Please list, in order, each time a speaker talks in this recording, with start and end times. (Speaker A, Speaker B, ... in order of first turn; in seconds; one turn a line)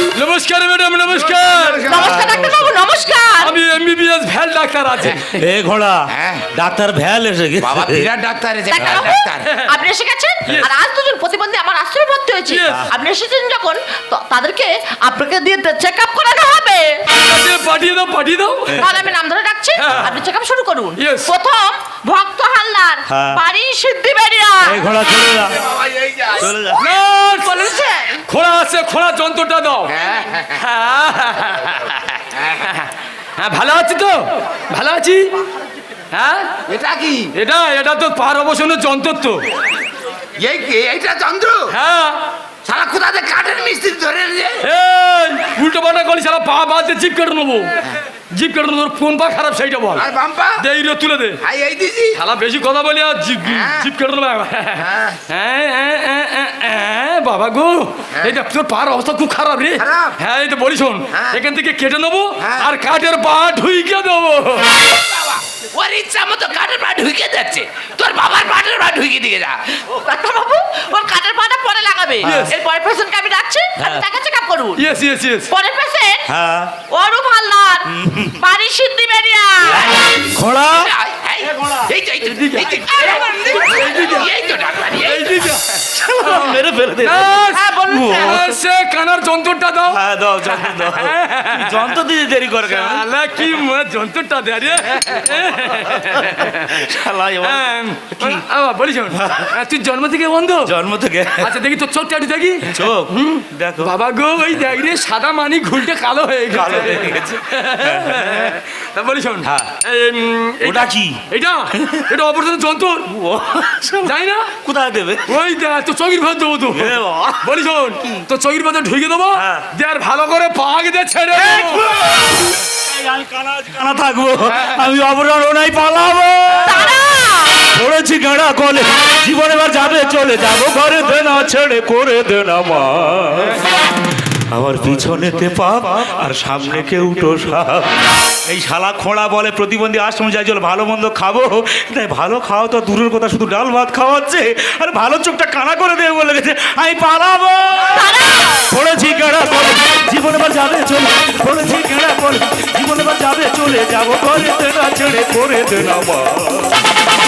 Speaker A: 0.1-1.9
Speaker B: 1.1-2.3
Speaker C: 1.9-3.6
Speaker D: 2.0-2.7
Speaker A: 3.4-5.4
Speaker D: 5.0-8.1
Speaker B: 6.1-6.5
Speaker B: 7.6-9.5
Speaker C: 8.7-17.0
Speaker A: 12.5-12.8
Speaker D: 12.7-12.9
Speaker A: 17.1-18.8
Speaker D: 18.7-19.0
Speaker C: 18.8-24.8
Speaker A: 19.8-20.1
Speaker A: 21.0-21.3
Speaker D: 23.1-23.4
Speaker D: 24.6-25.7
Speaker B: 25.7-26.4
Speaker D: 26.3-26.9
Speaker A: 26.8-27.7
Speaker C: 27.6-28.1
Speaker A: 28.3-29.9
Speaker B: 29.9-30.6
Speaker A: 30.6-31.9
Speaker B: 32.3-32.9
Speaker A: 33.4-35.2
Speaker A: 36.1-36.5
Speaker B: 36.7-37.3
Speaker A: 37.4-39.4
Speaker B: 40.4-41.6
Speaker A: 41.7-42.2
Speaker B: 42.6-44.6
Speaker A: 44.6-47.8
Speaker A: 48.3-50.0
Speaker B: 49.9-50.6
Speaker A: 50.6-51.4
Speaker B: 51.4-52.2
Speaker A: 52.1-64.7
Speaker B: 53.4-53.9
Speaker B: 54.8-55.2
Speaker B: 59.8-60.1
Speaker B: 61.1-61.4
Speaker B: 62.4-62.7
Speaker B: 64.8-69.5
Speaker C: 69.9-74.8
Speaker A: 72.2-72.5
Speaker A: 74.8-75.5
Speaker C: 75.5-76.2
Speaker D: 76.3-76.7
Speaker C: 76.9-80.0
Speaker D: 77.9-78.4
Speaker D: 80.1-80.9
Speaker B: 80.7-85.4
Speaker A: 82.2-84.3
Speaker C: 82.9-83.9
Speaker A: 84.9-90.0
Speaker D: 85.9-88.5
Speaker C: 87.5-88.4
Speaker D: 89.9-93.0
Speaker A: 90.5-92.0
Speaker A: 92.7-96.8
Speaker D: 95.9-98.4
Speaker A: 97.4-100.7
Speaker D: 99.1-99.5
Speaker D: 100.6-101.5
Speaker A: 101.4-113.1
Speaker D: 102.7-103.9
Speaker D: 106.5-108.5
Speaker D: 109.4-109.7
Speaker D: 110.6-111.2
Speaker D: 113.0-115.3
Speaker A: 114.0-114.5
Speaker A: 115.3-121.9
Speaker D: 116.7-117.5
Speaker D: 119.3-119.7
Speaker D: 121.3-127.0
Speaker C: 126.6-127.6
Speaker D: 127.7-133.6
Speaker D: 134.5-148.1
Speaker C: 147.9-148.7
Speaker D: 148.7-156.8